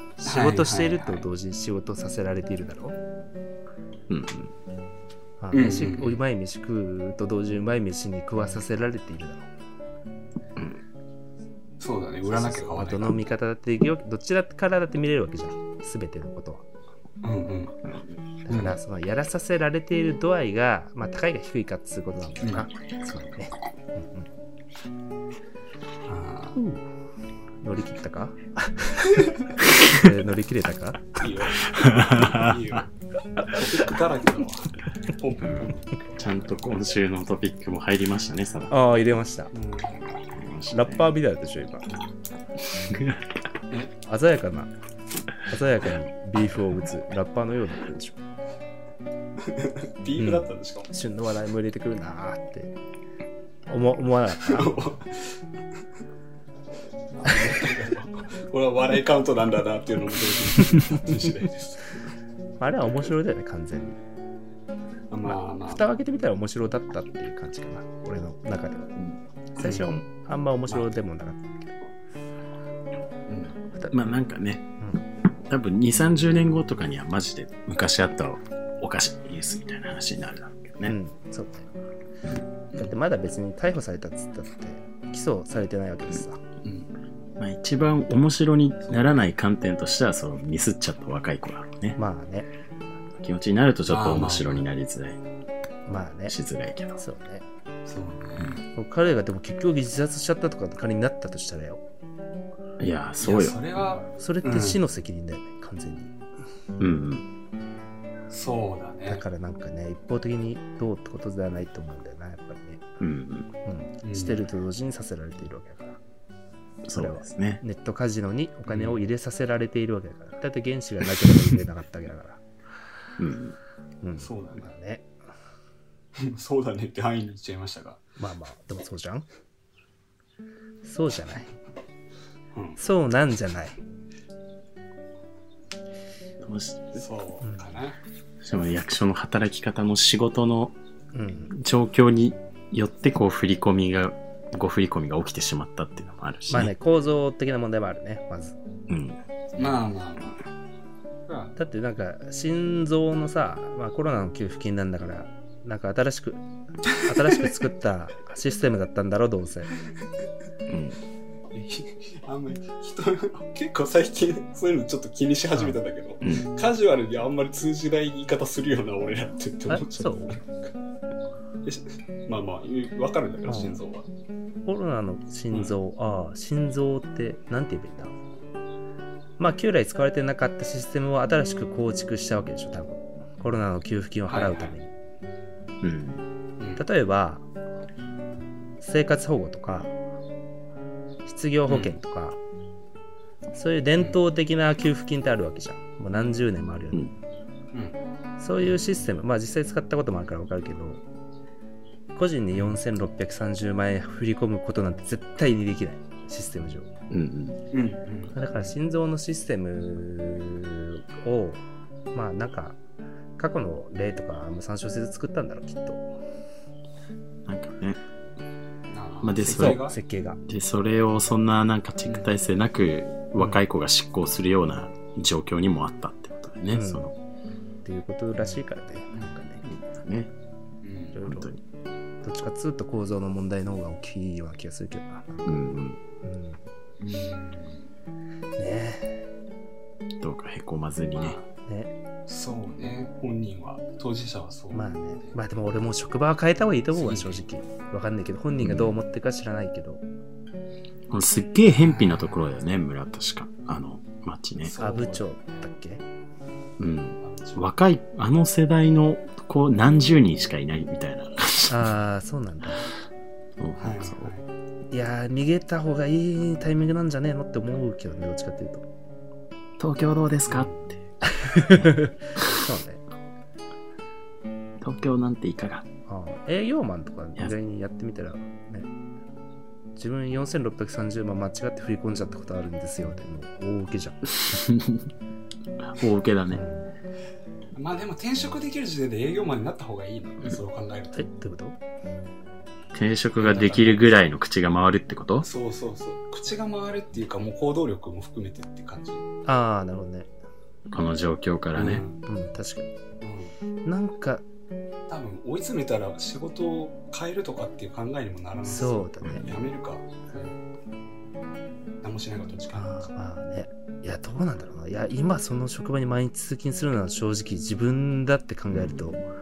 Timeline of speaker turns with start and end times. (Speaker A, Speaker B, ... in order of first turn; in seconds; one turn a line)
Speaker A: 0.2-3.0
Speaker B: 0.3-1.3
Speaker C: 4.1-4.5
Speaker A: 5.4-9.5
Speaker B: 5.5-6.2
Speaker B: 11.8-13.2
Speaker A: 12.3-16.6
Speaker B: 17.2-17.8
Speaker C: 17.9-18.2
Speaker A: 18.5-24.3
Speaker B: 18.5-18.8
Speaker B: 26.1-26.6
Speaker A: 26.6-26.8
Speaker A: 27.6-29.3
Speaker A: 29.9-31.2
Speaker B: 31.2-32.9
Speaker C: 31.8-32.6
Speaker B: 33.5-35.8
Speaker C: 35.4-38.8
Speaker A: 38.7-39.5
Speaker B: 39.5-40.1
Speaker C: 40.3-41.0
Speaker A: 40.7-41.9
Speaker C: 42.7-43.3
Speaker A: 44.0-44.7
Speaker A: 45.5-48.2
Speaker B: 49.4-50.9
Speaker A: 50.2-52.8
Speaker A: 53.7-54.8
Speaker B: 54.4-55.4
Speaker B: 57.1-62.0
Speaker A: 62.6-64.0
Speaker B: 65.1-65.9
Speaker A: 65.2-69.0
Speaker A: 69.6-71.8
Speaker B: 73.3-73.5
Speaker C: 73.9-74.7
Speaker C: 75.5-81.0
Speaker A: 80.8-81.7
Speaker A: 82.8-86.4
Speaker C: 87.4-92.0
Speaker A: 92.0-92.5
Speaker C: 93.2-95.2
Speaker B: 93.9-94.7
Speaker A: 95.9-96.4
Speaker C: 96.3-97.0
Speaker A: 97.0-97.4
Speaker B: 97.9-98.6
Speaker A: 98.7-101.8
Speaker C: 102.8-103.6
Speaker B: 103.2-104.8
Speaker A: 104.2-106.2
Speaker C: 106.8-107.2
Speaker B: 108.3-109.2
Speaker A: 109.1-112.9
Speaker C: 113.0-113.5
Speaker A: 113.7-116.0
Speaker B: 114.0-114.4
Speaker C: 116.8-117.6
Speaker A: 116.9-122.4
Speaker B: 118.7-119.0
Speaker C: 123.2-123.6
Speaker A: 124.0-125.1
Speaker B: 124.2-124.7
Speaker B: 126.2-128.0
Speaker A: 128.2-129.3
Speaker A: 130.8-131.5
Speaker B: 132.5-132.8
Speaker A: 132.8-133.8
Speaker C: 136.4-137.0
Speaker B: 137.0-138.0
Speaker C: 138.4-140.8
Speaker A: 141.1-141.5
Speaker C: 141.5-146.7
Speaker A: 146.5-148.6
Speaker C: 148.9-149.2
Speaker B: 149.6-150.4
Speaker B: 151.3-151.5
Speaker A: 151.6-159.7
Speaker C: 160.7-161.0
Speaker B: 161.5-170.7
Speaker A: 169.7-170.4
Speaker B: 171.6-174.1
Speaker A: 173.5-173.8
Speaker A: 174.7-178.1
Speaker A: 179.4-184.9
Speaker B: 184.3-184.8
Speaker C: 185.8-186.2
Speaker A: 186.8-187.4
Speaker A: 188.8-189.9
Speaker A: 191.3-192.4
Speaker B: 191.7-191.9
Speaker A: 193.5-197.1
Speaker A: 198.4-201.0
Speaker A: 202.2-206.9
Speaker C: 207.1-207.6
Speaker B: 207.7-208.3
Speaker A: 208.3-212.8
Speaker A: 213.4-216.1
Speaker C: 217.5-218.0
Speaker B: 218.9-220.0
Speaker C: 219.2-219.8
Speaker A: 219.5-220.4
Speaker C: 220.5-227.1
Speaker A: 226.7-227.1
Speaker A: 227.8-229.6
Speaker C: 229.6-230.3
Speaker B: 230.8-231.2
Speaker A: 231.1-231.5
Speaker C: 231.3-231.6
Speaker A: 232.2-236.6
Speaker C: 235.5-236.0
Speaker B: 237.0-237.8
Speaker A: 238.6-239.2
Speaker C: 240.2-241.4
Speaker B: 241.2-241.5
Speaker A: 241.7-241.9
Speaker B: 242.3-245.4
Speaker A: 244.7-250.0
Speaker B: 246.9-247.4
Speaker C: 248.6-248.9
Speaker C: 251.1-254.7
Speaker B: 251.8-252.5
Speaker B: 254.6-255.3
Speaker A: 254.8-256.0
Speaker C: 256.8-261.9
Speaker B: 257.2-257.7
Speaker A: 261.7-262.9
Speaker C: 263.6-264.3
Speaker B: 263.8-264.5
Speaker A: 264.9-268.9
Speaker C: 269.8-271.0
Speaker B: 270.5-270.8
Speaker A: 271.3-273.0
Speaker C: 271.6-272.0
Speaker C: 274.8-275.9
Speaker A: 276.1-278.9
Speaker A: 280.0-284.2
Speaker C: 284.5-285.1
Speaker C: 285.8-286.6
Speaker A: 286.5-286.9
Speaker B: 287.8-291.3
Speaker A: 291.1-291.8
Speaker C: 292.9-295.5
Speaker B: 293.4-294.2
Speaker B: 295.4-299.2
Speaker A: 299.5-300.3
Speaker C: 300.9-302.0
Speaker B: 301.8-302.2
Speaker A: 302.2-302.9
Speaker B: 303.2-303.5
Speaker A: 303.9-304.4
Speaker B: 305.1-310.6
Speaker A: 308.6-309.5
Speaker B: 312.0-313.0
Speaker A: 312.7-319.2
Speaker C: 318.7-319.2